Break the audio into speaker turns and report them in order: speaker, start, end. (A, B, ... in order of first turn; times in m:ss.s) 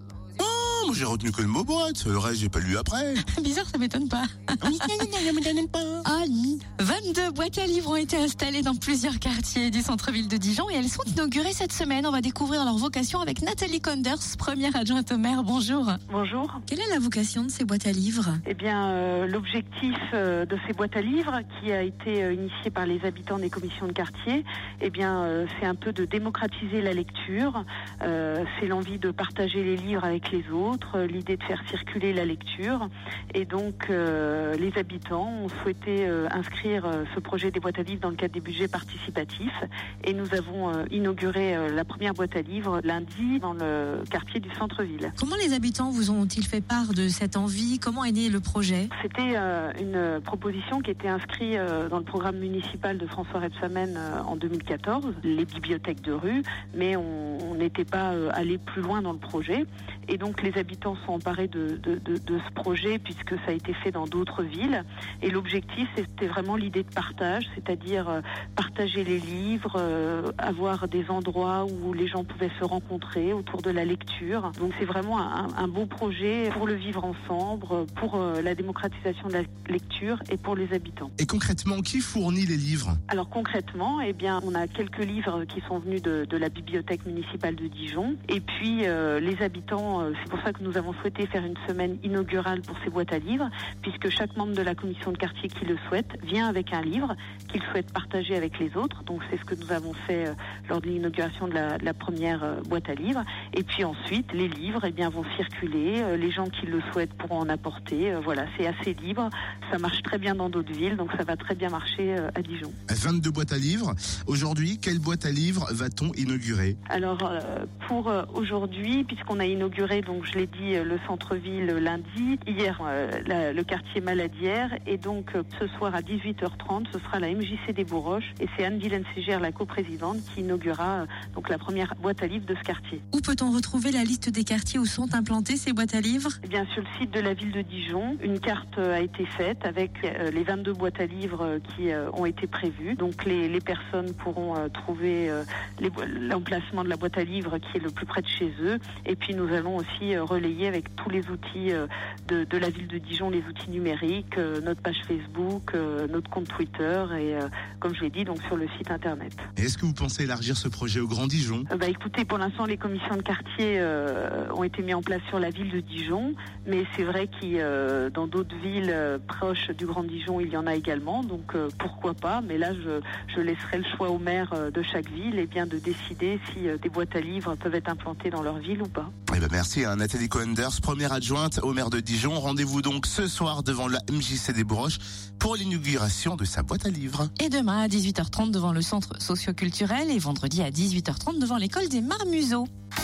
0:00.4-0:03.2 A
0:03.2-0:05.3 B
0:04.6-0:06.1 A
0:06.0-0:16.0 B
0:16.1-0:16.6 C
0:16.7-0:18.4 B
0:18.4-0:45.1 C
0:45.2-0:48.9 B
0:48.9-1:21.1 C
1:21.2-1:23.0 A
1:23.1-1:52.8 C
1:52.9-1:56.8 A
1:56.9-2:13.0 C
2:13.1-2:16.4 B
2:16.4-2:39.5 C
2:39.6-2:41.7 A
2:41.7-2:59.1 C
2:59.3-3:07.3 A
3:07.4-3:12.7 B